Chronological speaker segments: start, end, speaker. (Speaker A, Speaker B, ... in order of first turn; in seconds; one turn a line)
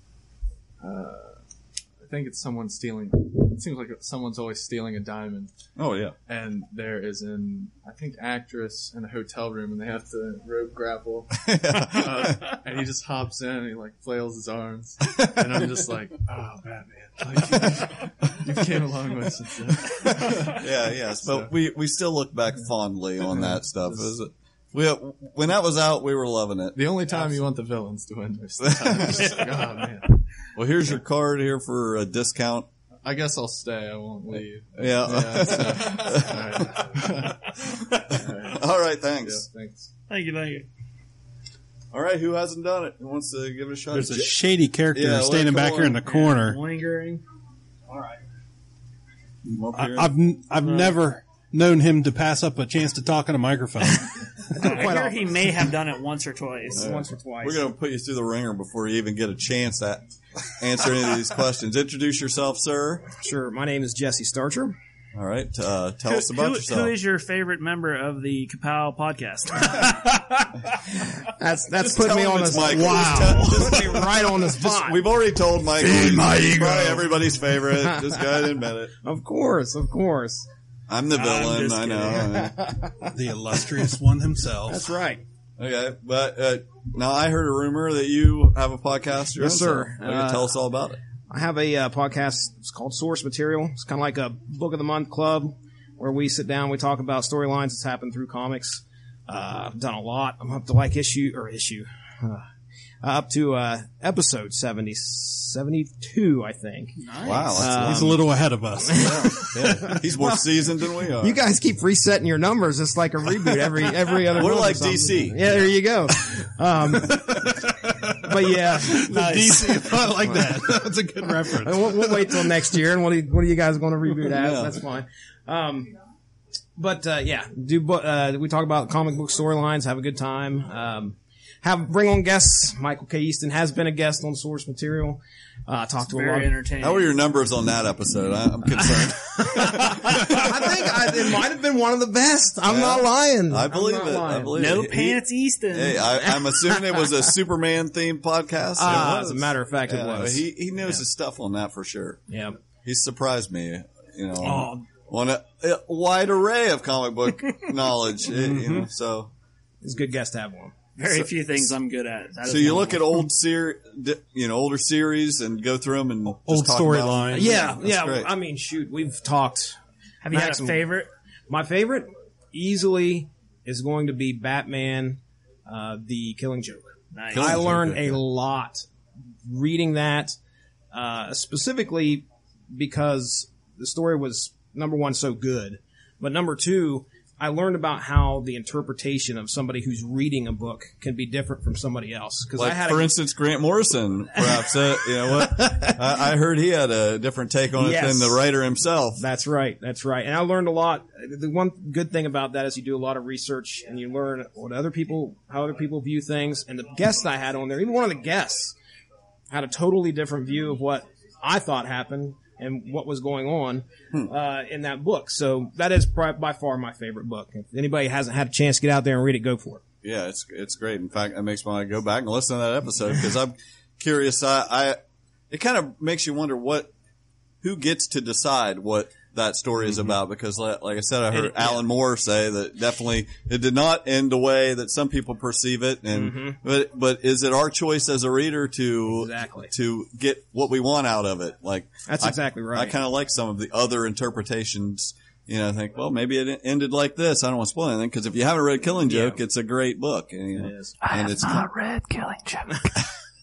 Speaker A: 0.8-1.4
Speaker A: 2.0-5.5
Speaker B: 5.8-6.2
Speaker A: 6.3-20.5
Speaker B: 11.4-12.6
Speaker B: 15.1-15.9
Speaker B: 17.5-18.8
Speaker B: 19.8-27.3
Speaker A: 21.2-21.5
Speaker A: 23.3-24.1
Speaker A: 26.7-30.2
Speaker B: 28.8-29.3
Speaker B: 30.6-32.7
Speaker A: 33.0-38.7
Speaker B: 34.8-36.9
Speaker B: 38.4-39.5
Speaker A: 39.2-39.9
Speaker C: 40.1-40.7
Speaker B: 41.9-46.0
Speaker D: 43.9-46.6
Speaker C: 46.0-47.2
Speaker B: 49.5-50.1
Speaker D: 49.7-54.2
Speaker C: 50.5-51.1
Speaker E: 54.5-55.4
Speaker C: 54.6-56.9
Speaker B: 56.7-63.1
Speaker E: 56.7-57.6
Speaker E: 63.1-64.8
Speaker B: 65.1-67.0
Speaker C: 66.1-70.5
Speaker E: 71.4-75.0
Speaker B: 71.8-78.9
Speaker C: 73.1-73.5
Speaker D: 75.9-76.7
Speaker E: 77.8-78.2
Speaker E: 79.0-80.5
Speaker B: 80.9-82.6
Speaker C: 81.1-82.2
Speaker E: 82.3-83.1
Speaker D: 83.1-84.8
Speaker E: 84.7-85.2
Speaker B: 85.6-91.0
Speaker E: 89.4-90.5
Speaker E: 91.3-102.4
Speaker E: 103.0-108.2
Speaker C: 107.0-107.7
Speaker B: 107.2-108.2
Speaker D: 107.7-109.3
Speaker E: 108.9-110.4
Speaker B: 108.9-111.4
Speaker E: 111.2-117.5
Speaker B: 114.3-115.7
Speaker E: 118.2-119.1
Speaker D: 118.9-122.5
Speaker C: 119.1-120.0
Speaker E: 121.5-125.9
Speaker B: 124.3-124.8
Speaker E: 126.8-136.5
Speaker C: 136.1-137.2
Speaker B: 136.8-141.1
Speaker E: 140.3-144.5
Speaker B: 142.6-152.2
Speaker C: 144.5-146.2
Speaker E: 146.2-147.1
Speaker E: 148.8-150.5
Speaker E: 152.3-152.6
Speaker B: 152.8-159.3
Speaker C: 154.4-154.8
Speaker C: 158.5-158.8
Speaker E: 159.8-160.9
Speaker C: 160.9-163.3
Speaker B: 162.4-168.3
Speaker E: 167.3-169.8
Speaker C: 167.4-167.7
Speaker C: 170.2-171.1
Speaker E: 170.3-170.8
Speaker E: 171.5-178.9
Speaker C: 177.1-177.6
Speaker B: 177.3-178.2
Speaker E: 179.4-180.4
Speaker E: 180.9-193.1
Speaker B: 192.6-199.2
Speaker E: 194.4-194.7
Speaker E: 195.3-196.0
Speaker E: 197.8-198.4
Speaker E: 199.2-208.7
Speaker E: 209.5-219.8
Speaker B: 220.0-225.0
Speaker B: 225.5-226.9
Speaker B: 227.6-251.7
Speaker C: 231.3-231.9
Speaker E: 236.1-236.6
Speaker E: 239.1-239.7
Speaker E: 242.1-242.9
Speaker E: 249.1-249.3
Speaker E: 250.6-250.9
Speaker C: 251.0-252.7